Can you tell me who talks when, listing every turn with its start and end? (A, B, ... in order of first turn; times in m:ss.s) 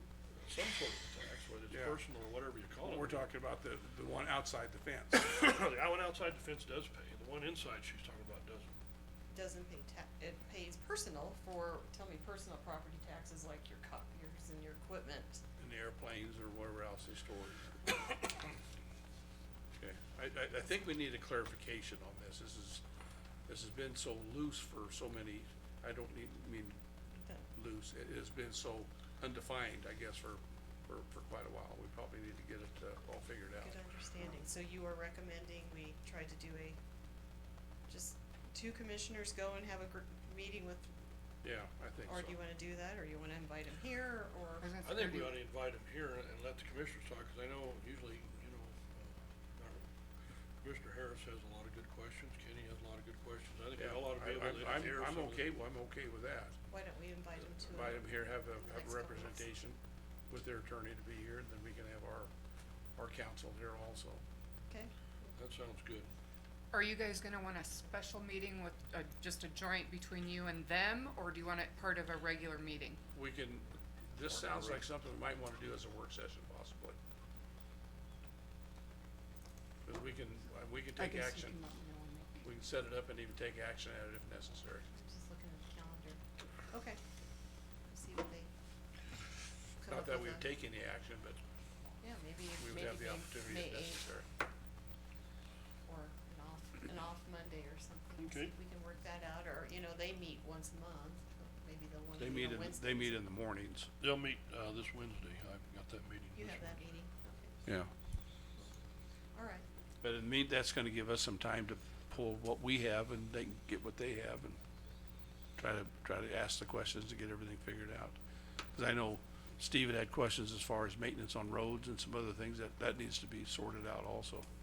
0:00.3-0:03.3 A
0:01.7-0:02.0 B
0:02.8-0:05.3 B
0:05.1-0:08.8 A
0:09.3-0:15.4 C
0:15.6-0:18.5 B
0:19.8-0:22.8 B
0:23.5-0:26.8 B
0:27.2-0:27.4 C
0:27.5-0:34.3 B
0:33.6-0:36.8 C
0:37.9-0:40.9 C
0:41.4-0:42.4 B
0:42.0-0:44.7 C
0:44.6-0:45.4 D
0:44.8-0:49.8 A
0:50.6-0:55.5 A
0:53.8-0:56.6 B
0:56.7-0:59.4 C
0:57.7-0:59.8 B
1:00.3-1:02.3 B
1:03.0-1:04.2 B
1:04.7-1:05.4 C
1:05.4-1:06.1 A
1:06.7-1:13.0 D
1:13.1-1:17.0 B
1:14.3-1:14.8 A
1:19.8-1:21.6 B
1:21.0-1:22.4 D
1:22.4-1:24.8 B
1:24.9-1:27.0 C
1:27.9-1:28.5 C
1:29.8-1:30.4 C
1:29.8-1:31.4 B
1:32.0-1:34.0 C
1:32.6-1:34.2 B
1:35.8-1:43.2 C
1:38.2-1:38.5 A
1:42.2-1:43.9 B
1:44.0-1:46.8 A
1:46.3-1:47.6 C
1:47.6-1:47.9 B
1:49.3-1:49.6 C
1:50.0-1:54.6 B
1:55.6-1:58.2 B
1:58.7-2:04.4 B